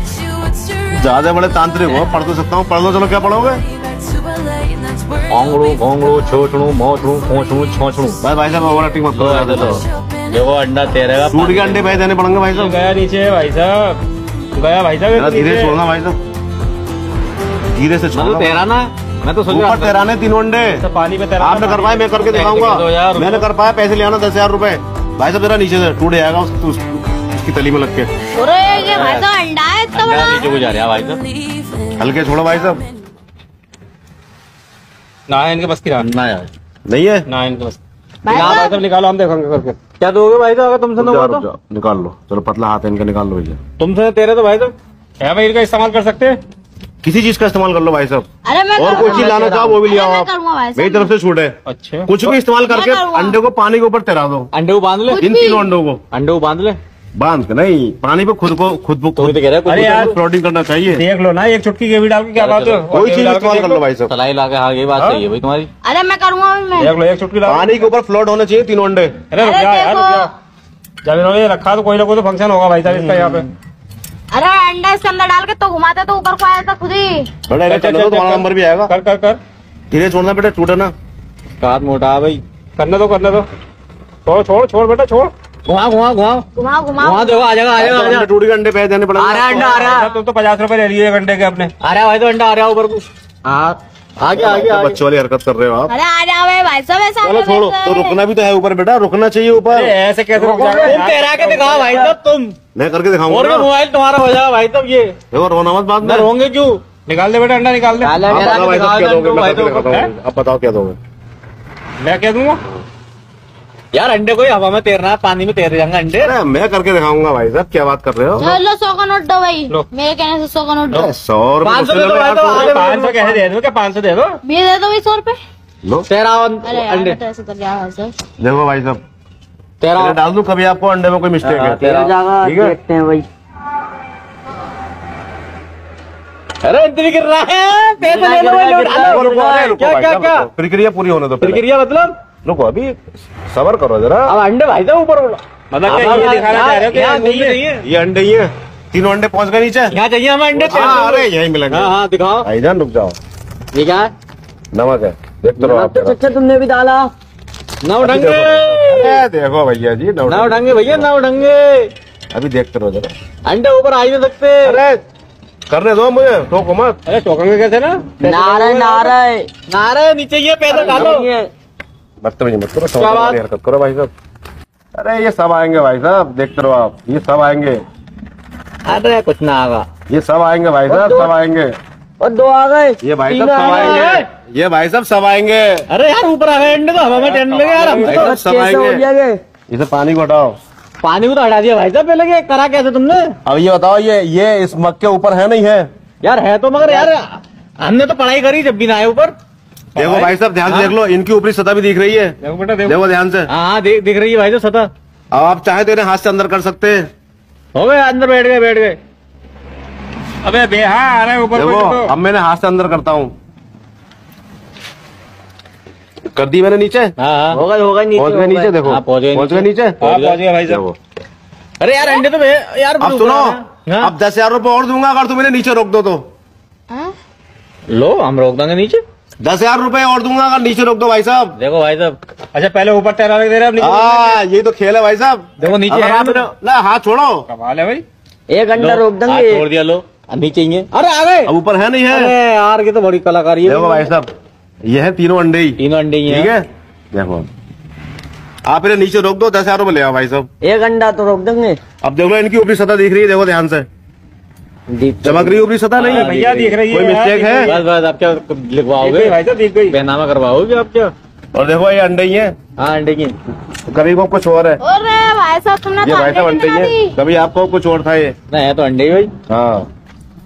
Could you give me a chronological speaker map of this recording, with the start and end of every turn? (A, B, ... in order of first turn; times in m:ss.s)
0:00.9-0:03.6 A
0:05.3-0:08.2 B
0:08.2-0:09.8 A
0:09.1-0:12.0 B
0:11.3-0:12.8 A
0:12.5-0:14.0 C
0:14.6-0:15.7 C
0:15.1-0:16.2 A
0:17.7-0:18.5 A
0:18.1-0:19.9 B
0:19.5-0:20.8 A
0:20.8-0:22.2 C
0:21.4-0:28.1 A
0:22.2-0:23.5 B
0:28.3-0:30.6 D
0:28.8-0:29.3 B
0:29.9-0:31.2 B
0:32.0-0:32.8 A
0:35.3-0:36.0 C
0:36.0-0:36.5 B
0:36.9-0:37.2 A
0:37.3-0:37.8 C
0:38.2-0:38.8 D
0:38.3-0:38.7 B
0:38.3-0:39.8 C
0:40.0-0:41.4 B
0:41.0-0:43.6 A
0:43.8-0:44.7 B
0:45.2-0:46.4 C
0:47.0-0:51.5 A
0:48.4-0:51.1 D
0:49.2-0:49.7 E
0:51.6-0:52.3 C
0:52.1-0:54.5 A
0:52.6-0:53.4 D
0:54.5-0:55.2 B
0:55.1-0:55.7 D
0:55.1-0:56.0 A
0:56.1-0:56.8 B
0:57.2-1:01.0 A
0:59.2-1:00.1 B
0:59.6-1:00.1 C
1:00.9-1:03.8 C
1:02.4-1:02.9 B
1:02.9-1:04.1 A
1:04.1-1:05.7 B
1:05.0-1:05.2 C
1:05.8-1:06.9 D
1:06.8-1:07.8 C
1:07.4-1:09.2 A
1:09.3-1:10.3 C
1:09.4-1:10.3 D
1:11.0-1:13.5 C
1:12.8-1:13.4 A
1:14.3-1:17.3 D
1:17.5-1:18.9 A
1:17.6-1:19.4 C
1:19.9-1:20.9 A
1:21.6-1:22.4 B
1:22.8-1:23.5 C
1:24.2-1:25.3 C
1:25.6-1:26.4 B
1:26.5-1:27.4 D
1:27.0-1:28.3 B
1:27.7-1:30.0 A
1:29.2-1:30.1 B
1:29.5-1:31.7 C
1:31.8-1:35.0 B
1:34.3-1:35.9 A
1:35.9-1:38.2 D
1:37.2-1:41.0 A
1:39.7-1:41.7 C
1:40.4-1:42.6 B
1:41.7-1:42.1 E
1:42.7-1:43.7 A
1:43.3-1:45.1 B
1:45.3-1:46.3 A
1:46.0-1:46.8 B
1:47.0-1:48.1 C
1:48.0-1:49.7 E
1:48.1-1:49.8 B
1:48.2-1:51.0 A
1:52.0-1:52.6 C
1:53.9-1:56.3 B
1:56.2-1:58.6 A
1:58.4-2:01.1 D
2:00.9-2:02.8 A
2:01.6-2:03.4 B
2:02.5-2:04.4 C
2:04.4-2:05.4 D
2:06.1-2:07.2 B
2:06.6-2:08.1 D
2:08.4-2:09.0 A
2:09.8-2:10.2 B
2:09.9-2:12.7 A
2:11.4-2:12.1 B
2:11.7-2:13.3 E
2:16.6-2:20.5 B
2:18.0-2:19.8 E
2:19.0-2:21.6 A
2:21.4-2:22.1 B
2:22.4-2:23.0 A
2:23.5-2:24.3 A
2:24.3-2:27.8 B
2:25.7-2:27.6 C
2:27.8-2:30.0 A
2:29.9-2:32.4 B
2:30.5-2:33.2 A
2:33.7-2:34.1 B
2:34.7-2:36.2 A
2:35.6-2:37.1 E
2:37.8-2:39.2 B
2:38.0-2:41.1 A
2:40.3-2:41.9 B
2:42.3-2:43.1 A
2:43.4-2:44.7 B
2:44.6-2:45.0 A
2:45.7-2:47.0 A
2:47.0-2:49.1 C
2:48.2-2:49.5 E
2:49.7-2:51.2 B
2:50.7-2:51.5 E
2:52.2-2:54.1 A
2:52.9-2:53.4 B
2:55.0-2:57.8 A
2:58.8-2:59.9 B
3:00.1-3:01.7 A
3:00.9-3:01.3 E
3:02.2-3:04.1 E
3:03.0-3:05.9 A
3:03.6-3:04.3 B
3:05.9-3:08.3 B
3:07.1-3:08.1 C
3:08.0-3:09.4 E
3:08.0-3:09.0 A
3:09.7-3:10.6 A
3:11.0-3:13.3 B
3:13.4-3:15.9 A
3:16.2-3:19.3 B
3:20.0-3:20.3 C
3:20.0-3:23.5 A
3:20.6-3:20.9 B
3:22.4-3:23.0 C
3:23.5-3:24.9 B
3:25.3-3:27.1 A
3:27.7-3:29.0 B
3:30.4-3:32.1 C
3:31.5-3:33.3 A
3:36.3-3:37.1 A
3:37.2-3:37.6 B
3:37.5-3:38.8 E
3:38.1-3:40.0 A
3:38.8-3:40.4 B
3:40.0-3:40.8 C
3:40.7-3:41.0 A
3:41.8-3:44.1 B
3:43.0-3:46.2 A
3:47.9-3:49.0 B
3:49.4-3:51.6 A
3:51.6-3:52.2 B
3:52.5-3:54.4 C
3:53.8-3:57.4 A
3:55.6-3:56.5 B
3:57.5-3:58.0 C
3:58.5-3:59.6 E
3:58.7-4:01.5 B
4:01.4-4:02.3 A
4:02.1-4:04.1 B
4:03.6-4:04.3 A
4:04.9-4:07.5 A
4:05.8-4:06.5 B
4:08.6-4:10.5 A
4:10.6-4:11.8 E
4:12.0-4:13.9 A
4:14.9-4:15.6 E
4:15.2-4:17.7 A
4:16.0-4:16.8 B
4:16.1-4:17.8 C
4:17.6-4:19.4 B
4:19.0-4:20.0 C
4:19.9-4:21.1 B
4:21.5-4:22.5 A
4:22.8-4:23.4 B
4:23.9-4:24.8 A
4:24.8-4:27.1 D
4:26.0-4:28.3 A
4:28.5-4:29.3 B
4:29.5-4:29.8 A